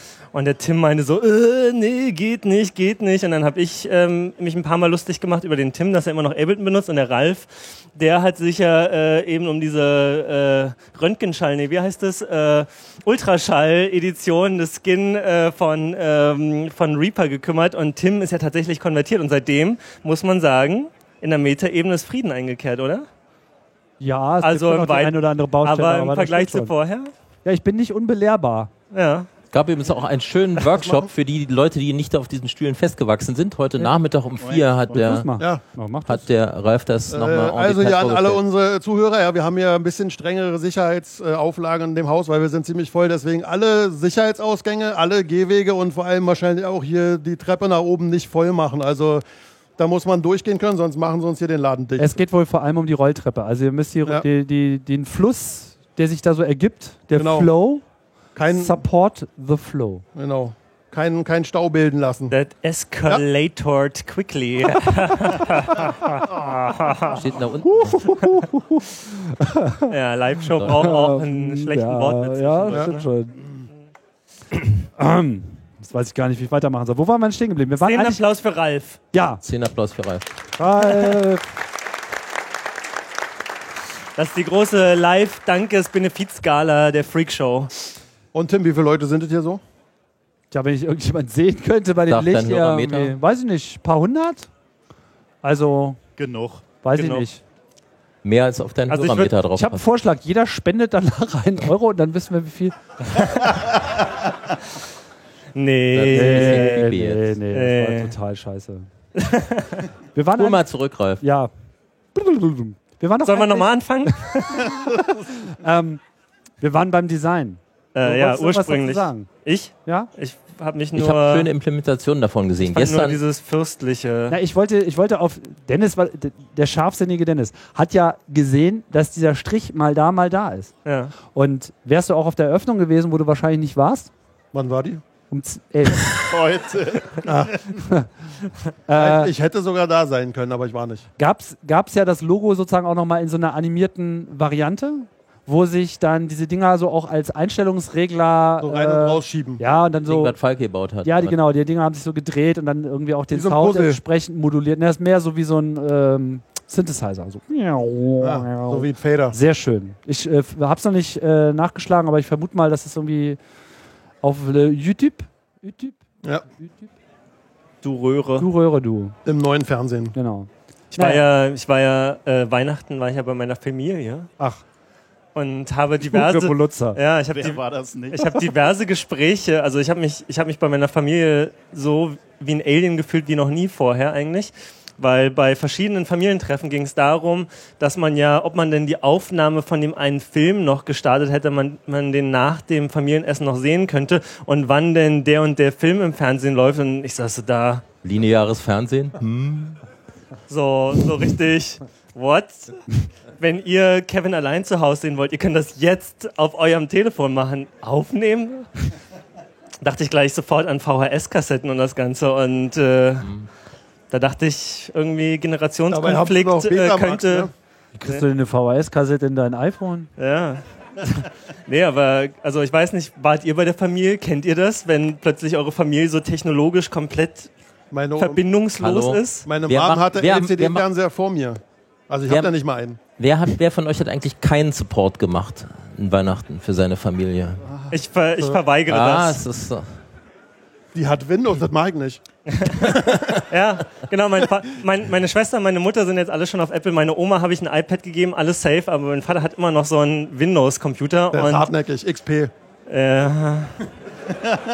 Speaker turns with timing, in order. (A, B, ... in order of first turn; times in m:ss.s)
0:00.3-0:23.1 A
0:24.0-0:26.7 B
0:24.4-0:27.1 A
0:27.4-0:28.7 B
0:28.9-0:29.3 A
0:29.5-0:35.3 C
0:34.4-0:35.2 D
0:34.9-0:36.2 B
0:36.0-0:38.4 C
0:37.1-0:49.2 E
0:49.8-0:52.2 E
0:52.0-0:57.8 B
0:57.1-0:57.5 E
0:58.4-0:58.8 E
0:58.5-1:00.0 B
1:00.2-1:02.4 E
1:02.3-1:07.2 A
1:06.1-1:06.8 B
1:07.1-1:08.2 C
1:07.6-1:09.9 B
1:09.9-1:13.0 A
1:10.6-1:10.9 C
1:10.6-1:13.4 B
1:15.0-1:18.2 B
1:17.8-1:19.0 A
1:19.1-1:19.4 B
1:19.4-1:20.3 C
1:20.6-1:21.5 B
1:24.2-1:27.7 A
1:28.3-1:29.6 E
1:30.5-1:34.5 B
1:32.1-1:33.2 C
1:35.4-1:36.0 B
1:36.2-1:36.7 D
1:36.8-1:37.4 B
1:37.0-1:37.3 A
1:38.2-1:39.8 C
1:38.9-1:39.3 A
1:39.5-1:42.8 B
1:45.6-1:46.9 A
1:45.9-1:47.4 C
1:46.1-1:48.9 B
1:47.5-1:48.2 A
1:49.2-1:49.9 A
1:50.2-1:50.6 B
1:50.4-1:51.2 C
1:51.2-1:51.5 B
1:52.2-1:53.7 B
1:53.3-1:54.8 A
1:54.5-1:56.0 B
1:56.6-1:59.3 B
1:58.0-2:01.5 A
2:01.0-2:03.2 C
2:02.6-2:04.4 A
2:04.3-2:10.7 B
2:10.9-2:11.1 A
2:11.3-2:14.1 B
2:14.5-2:15.0 E
2:15.3-2:16.1 B
2:16.3-2:17.5 D
2:17.2-2:17.6 E
2:17.8-2:18.1 B
2:18.9-2:19.3 B
2:18.9-2:21.1 E
2:21.2-2:30.4 B
2:28.6-2:29.6 E
2:30.1-2:31.4 C
2:31.0-2:43.4 B
2:33.3-2:34.0 E
2:38.2-2:39.4 E
2:44.2-2:46.0 B
2:46.6-2:46.9 B
2:47.8-2:48.5 A
2:48.4-2:49.2 B
2:49.3-2:50.2 E
2:50.1-2:51.2 B
2:51.0-2:54.3 A
2:55.4-3:17.8 A
2:56.0-2:57.0 B
2:57.3-2:58.3 D
3:18.0-3:19.8 C
3:20.5-3:28.7 A
3:29.8-3:33.3 A
3:33.2-3:33.5 C
3:34.1-3:37.5 A
3:35.9-3:37.5 E
3:38.0-3:40.1 B
3:40.2-3:47.5 A
3:47.9-3:48.4 E
3:48.2-3:49.5 A
3:48.8-3:50.9 C
3:49.5-3:53.0 E
3:52.3-3:52.5 C
3:53.2-3:57.6 C
3:57.9-3:59.4 A
3:58.9-3:59.9 C
4:00.9-4:02.2 E
4:02.5-4:11.7 A
4:02.9-4:03.4 C
4:11.3-4:12.5 E
4:12.9-4:13.9 A